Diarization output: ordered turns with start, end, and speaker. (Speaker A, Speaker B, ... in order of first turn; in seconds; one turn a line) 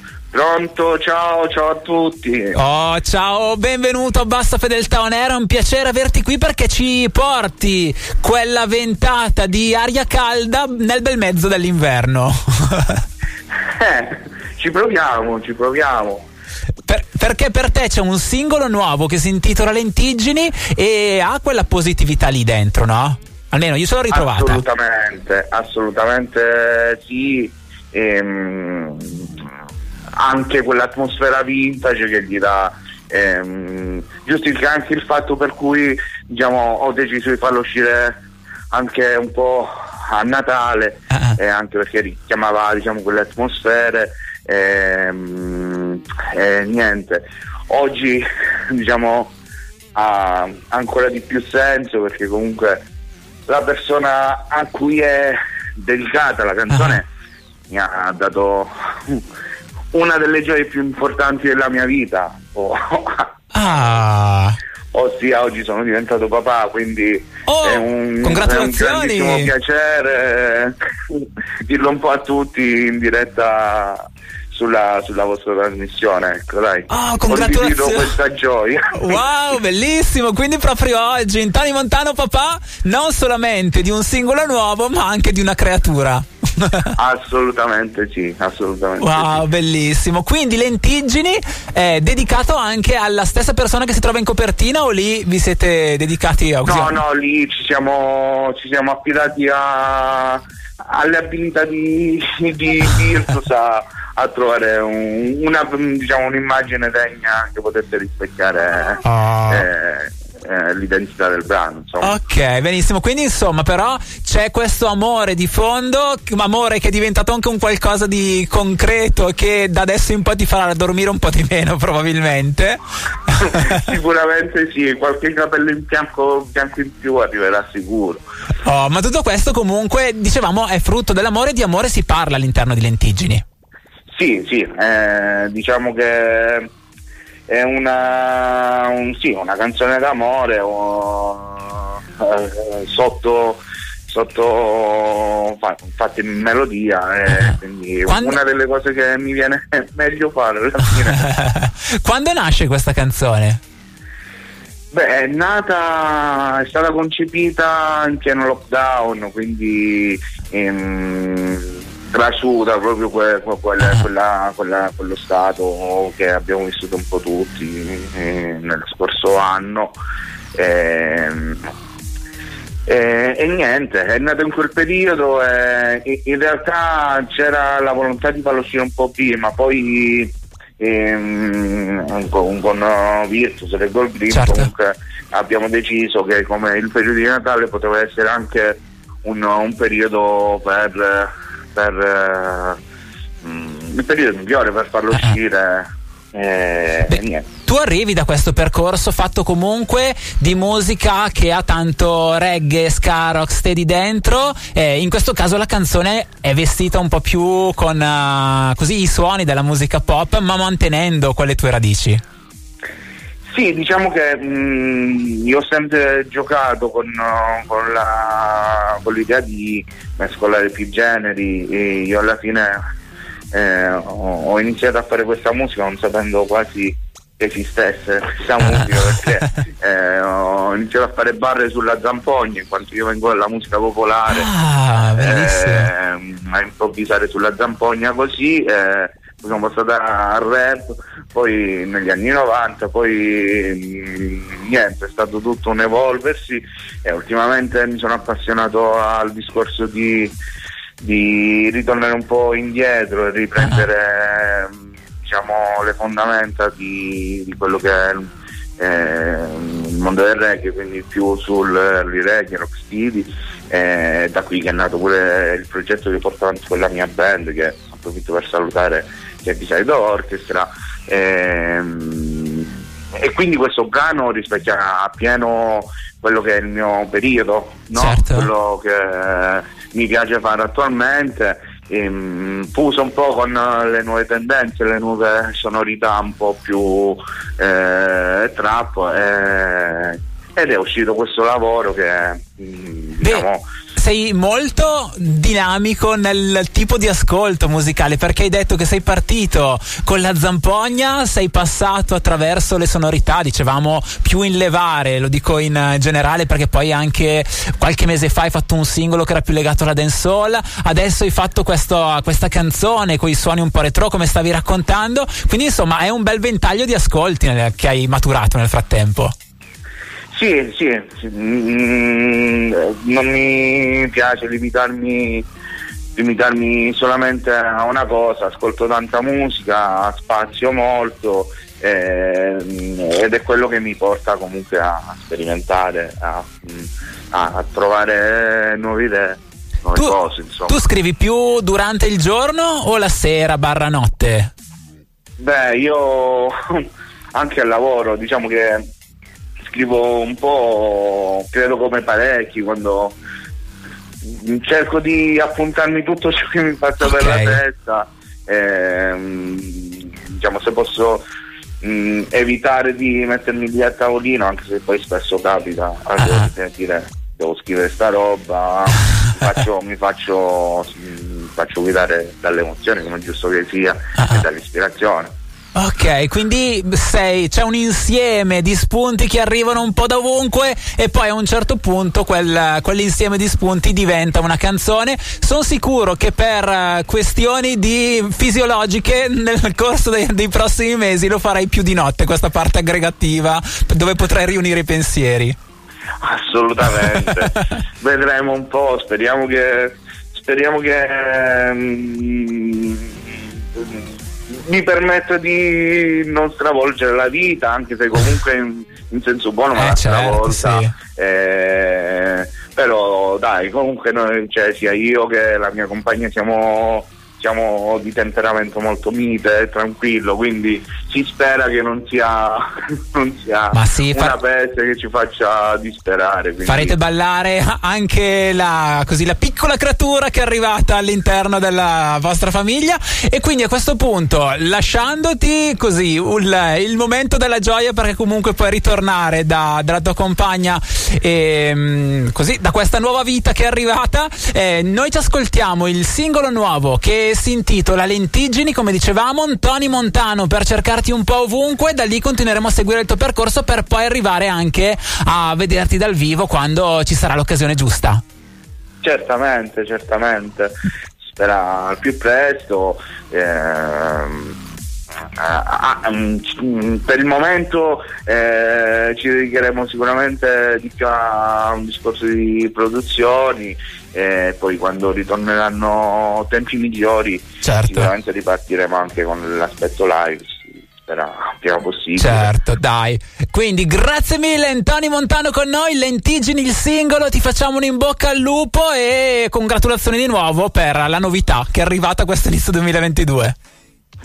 Speaker A: 0.3-2.6
Speaker B: 2.5-13.0
Speaker A: 13.8-16.3
Speaker B: 16.9-24.6
Speaker A: 24.1-29.4
Speaker A: 30.2-38.2
Speaker A: 38.7-49.3
Speaker A: 49.9-52.8
Speaker A: 53.5-57.1
Speaker B: 56.7-57.0
Speaker A: 57.7-59.2
Speaker A: 59.9-63.3
Speaker B: 63.5-64.6
Speaker A: 64.9-79.2
Speaker B: 67.5-69.5
Speaker B: 76.9-78.1
Speaker B: 78.9-86.9
Speaker A: 87.0-89.4
Speaker B: 89.0-97.0
Speaker A: 96.6-112.2
Speaker B: 109.0-109.7
Speaker B: 112.0-123.7
Speaker A: 123.3-128.2
Speaker B: 128.6-133.4
Speaker A: 134.1-136.7
Speaker A: 137.5-151.3
Speaker B: 147.3-147.5
Speaker B: 148.1-148.4
Speaker B: 151.2-153.6
Speaker A: 154.9-169.9
Speaker A: 170.6-171.7
Speaker A: 172.9-192.8
Speaker B: 184.3-184.7
Speaker A: 193.4-197.5
Speaker B: 197.1-212.2
Speaker A: 213.5-222.8
Speaker A: 223.5-234.5
Speaker B: 228.6-229.3
Speaker B: 234.3-235.9
Speaker A: 235.1-250.3
Speaker A: 251.0-293.6
Speaker B: 253.6-253.8
Speaker B: 277.9-278.5
Speaker B: 293.2-319.3
Speaker A: 320.3-325.5
Speaker A: 326.1-340.8
Speaker B: 340.7-344.5
Speaker A: 345.4-348.9
Speaker A: 349.7-353.2
Speaker A: 354.2-361.2
Speaker B: 357.0-357.6
Speaker A: 361.8-375.3
Speaker B: 366.2-366.5
Speaker B: 375.7-395.6
Speaker A: 396.2-426.9
Speaker B: 397.2-397.6
Speaker B: 409.8-410.9
Speaker B: 423.7-424.4
Speaker B: 426.6-458.2
Speaker A: 459.0-460.7
Speaker A: 461.3-464.6
Speaker A: 465.4-482.5
Speaker B: 477.6-478.1
Speaker B: 482.2-493.6